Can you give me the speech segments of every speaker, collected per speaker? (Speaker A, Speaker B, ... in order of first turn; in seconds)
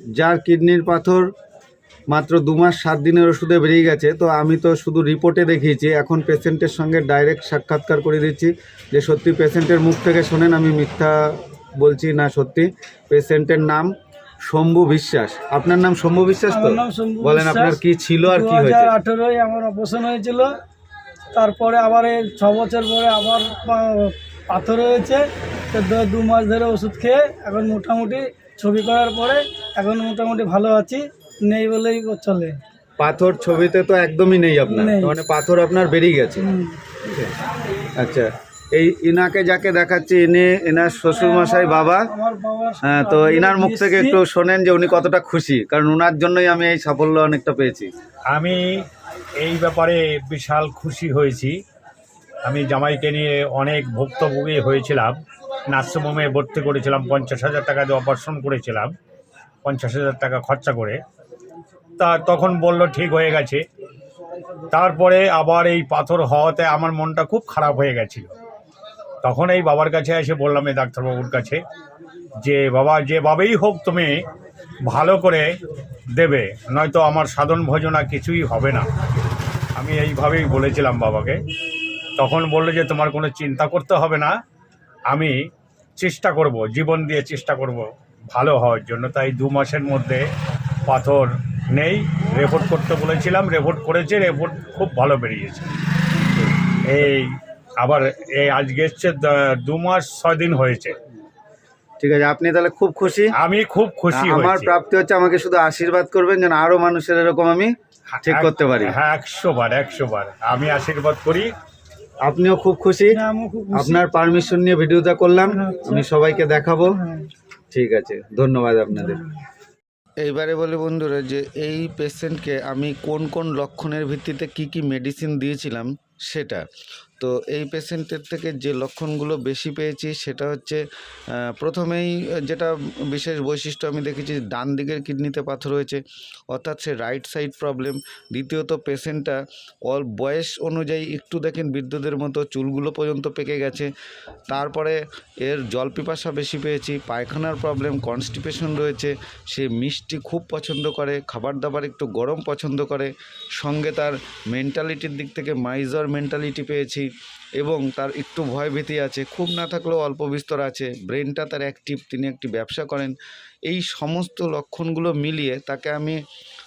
Speaker A: 0.2-1.3, 2.1-11.2, 11.8-13.9, 14.5-18.9, 33.0-36.5, 37.0-37.3, 38.0-42.0, 42.8-47.9, 102.0-103.3, 104.1-107.7, 108.2-108.9, 112.2-113.2, 113.7-117.0, 117.7-119.2, 120.2-126.6, 127.2-130.8, 131.4-143.9, 144.5-157.1, 157.6-163.1, 163.7-166.2
Speaker B: 16.5-20.5, 21.3-32.6, 34.7-35.1, 36.5-36.8, 41.1-44.2, 113.1-114.1, 115.5-116.0, 117.0-117.3
Speaker C: 48.3-48.8, 49.4-51.5, 52.5-55.2, 55.7-58.9, 59.6-61.0, 62.0-63.6, 64.7-68.3, 69.2-71.6, 72.4-74.1, 74.8-75.4, 76.2-78.8, 79.8-81.4, 82.2-84.3, 86.0-90.2, 90.9-95.7, 96.8-100.9, 103.4-104.7, 108.1-111.5